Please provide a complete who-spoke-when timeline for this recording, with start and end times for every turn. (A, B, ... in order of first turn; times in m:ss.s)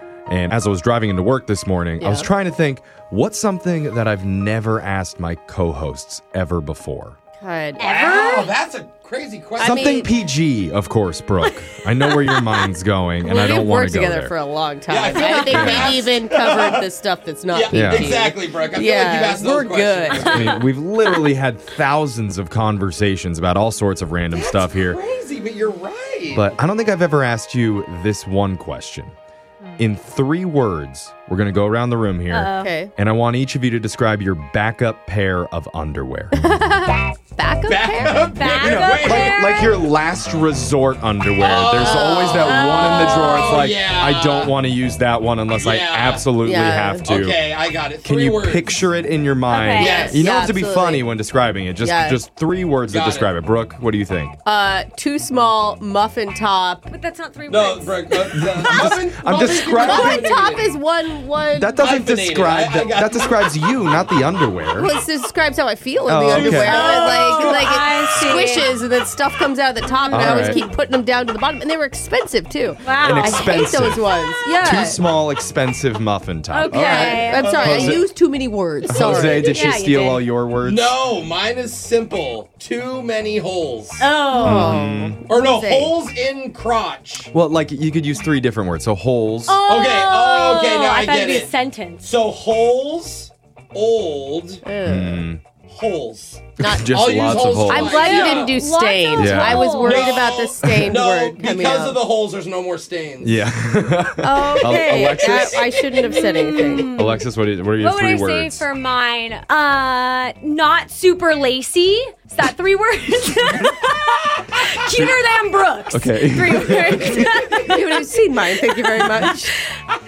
0:00.3-0:07.2 A
0:02.0-0:02.3 B
0:07.4-0:07.8 B
0:07.8-0:08.6 C
0:07.8-0:09.8 D
0:09.6-0:10.1 B
0:09.6-0:14.3 A
0:13.2-0:20.5 B
0:14.9-0:16.9 D
0:15.5-0:16.0 A
0:17.5-0:20.4 D
0:17.7-0:18.2 A
0:20.1-0:20.6 C
0:20.2-0:25.0 A
0:24.3-0:26.6 D
0:26.3-0:29.1 A
0:29.8-0:36.5 A
0:32.3-0:32.7 C
0:32.6-0:32.9 B
0:36.4-0:38.3 B
0:37.7-0:39.3 D
0:38.3-0:39.8 C
0:38.6-0:47.4 A
0:41.4-0:44.6 D
0:41.8-0:43.2 B
0:42.4-0:43.7 C
0:45.6-0:46.4 D
0:46.4-0:47.1 B
0:47.0-0:48.8 D
0:48.0-0:54.4 A
0:49.5-0:50.2 C
0:49.7-0:50.3 D
0:50.0-0:51.1 B
0:51.8-0:52.2 B
0:52.9-0:53.3 D
0:54.4-0:56.9 B
0:56.9-0:58.5 C
0:57.5-1:00.7 D
0:58.3-1:00.4 A
0:59.5-1:01.8 B
1:01.5-1:04.9 A
1:01.8-1:03.5 D
1:04.8-1:15.0 B
1:06.1-1:07.3 A
1:06.3-1:08.7 C
1:09.9-1:10.7 C
1:10.1-1:10.6 A
1:12.8-1:13.6 C
1:13.0-1:14.1 A
1:14.6-1:18.1 A
1:16.5-1:18.0 C
1:16.7-1:19.5 B
1:18.9-1:20.9 A
1:19.2-1:20.2 C
1:20.6-1:24.2 D
1:24.0-1:24.8 C
1:24.3-1:26.0 B
1:24.4-1:25.2 A
1:25.3-1:27.3 D
1:27.3-1:29.6 A
1:29.5-1:32.1 C
1:29.7-1:34.6 D
1:34.6-1:35.3 B
1:34.8-1:35.4 A
1:35.6-1:38.6 D
1:36.6-1:38.1 A
1:36.6-1:42.0 B
1:37.9-1:40.2 C
1:39.2-1:39.8 A
1:39.8-1:43.5 D
1:40.6-1:40.9 A
1:43.2-1:45.7 A
1:44.2-1:47.0 B
1:44.6-1:44.9 C
1:45.0-1:46.2 D
1:46.0-1:47.2 C
1:46.9-1:48.6 A
1:47.8-1:59.8 C
1:55.9-1:57.2 A
1:57.0-1:57.6 D
1:57.6-1:59.6 B